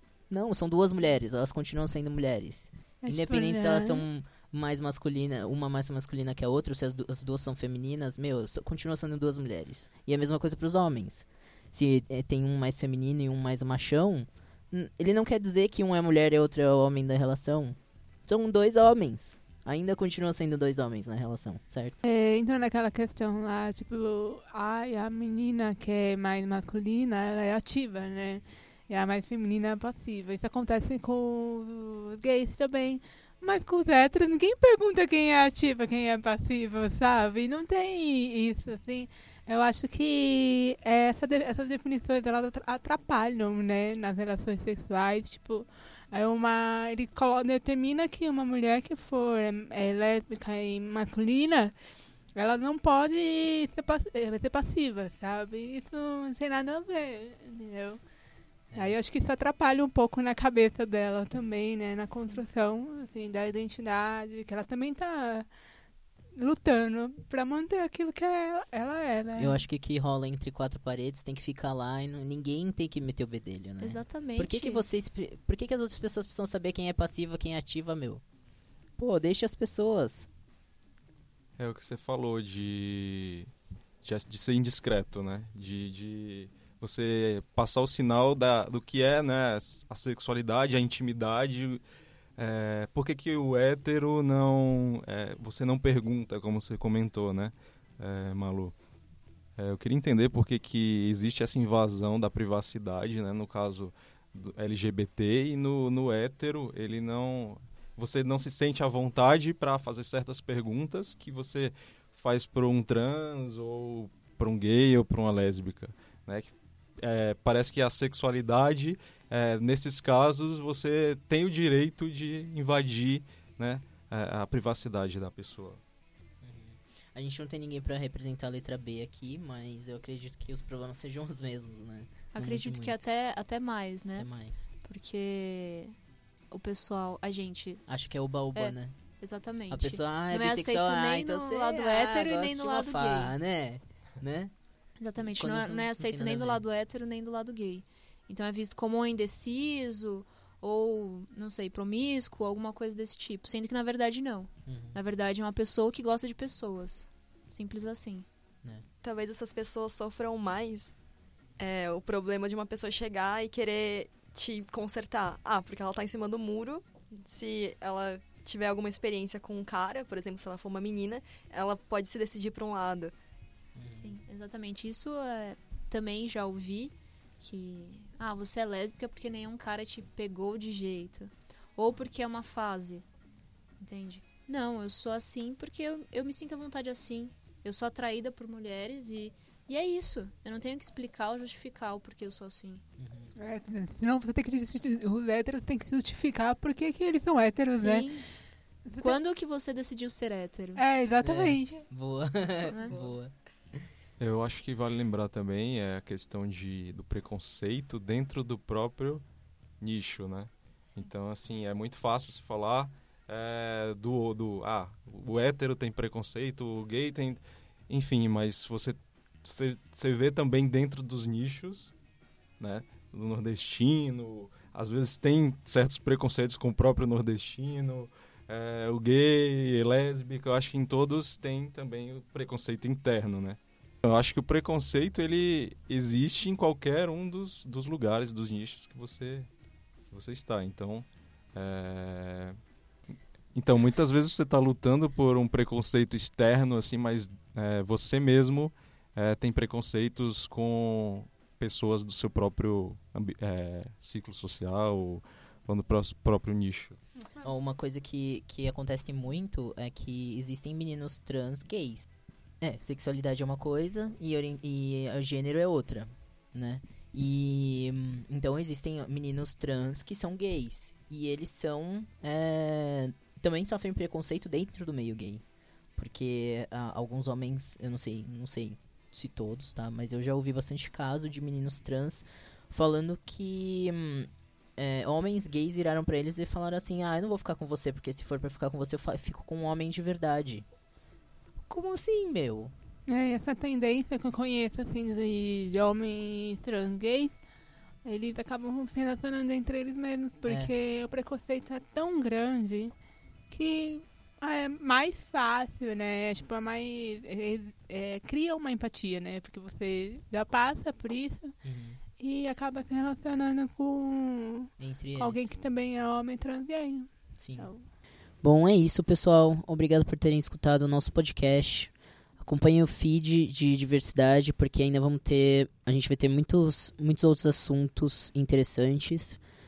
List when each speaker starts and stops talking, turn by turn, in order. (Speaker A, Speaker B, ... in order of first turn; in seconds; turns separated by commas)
Speaker A: 0.3-22.0, Speaker B: 3.0-4.0, Speaker B: 22.0-51.8, Speaker B: 52.3-58.0, Speaker B: 58.7-65.5, Speaker B: 66.3-69.6, Speaker A: 69.4-78.2, Speaker C: 73.8-74.8, Speaker A: 79.0-80.3, Speaker D: 81.6-83.5, Speaker D: 84.0-91.8, Speaker D: 92.4-98.8, Speaker D: 99.6-125.8, Speaker A: 126.4-133.0, Speaker C: 132.3-136.0, Speaker A: 134.2-134.7, Speaker C: 136.5-137.9, Speaker A: 137.9-138.9, Speaker C: 138.6-143.3, Speaker A: 139.7-144.5, Speaker C: 145.0-158.3, Speaker A: 145.2-146.6, Speaker A: 154.7-155.0, Speaker E: 159.0-160.9, Speaker E: 161.6-173.1, Speaker A: 173.8-174.2, Speaker C: 173.9-183.1, Speaker C: 183.8-192.8, Speaker A: 193.0-193.3, Speaker B: 193.4-198.3, Speaker C: 197.7-198.3, Speaker B: 198.9-199.2, Speaker C: 198.9-200.9, Speaker B: 200.8-201.8, Speaker A: 201.2-203.9, Speaker C: 202.7-203.0, Speaker E: 202.9-203.2, Speaker D: 204.2-209.2, Speaker D: 209.8-221.9, Speaker D: 222.6-239.5, Speaker D: 240.1-242.6, Speaker D: 243.5-257.0, Speaker B: 257.2-257.5, Speaker A: 257.4-262.1, Speaker A: 262.6-275.4, Speaker A: 276.0-290.7, Speaker A: 291.7-292.7, Speaker B: 293.1-297.4, Speaker B: 298.1-302.9, Speaker A: 300.5-300.7, Speaker B: 303.5-311.6, Speaker A: 311.6-312.0, Speaker B: 312.2-317.9, Speaker A: 314.8-315.6, Speaker A: 317.4-317.7, Speaker A: 318.4-329.4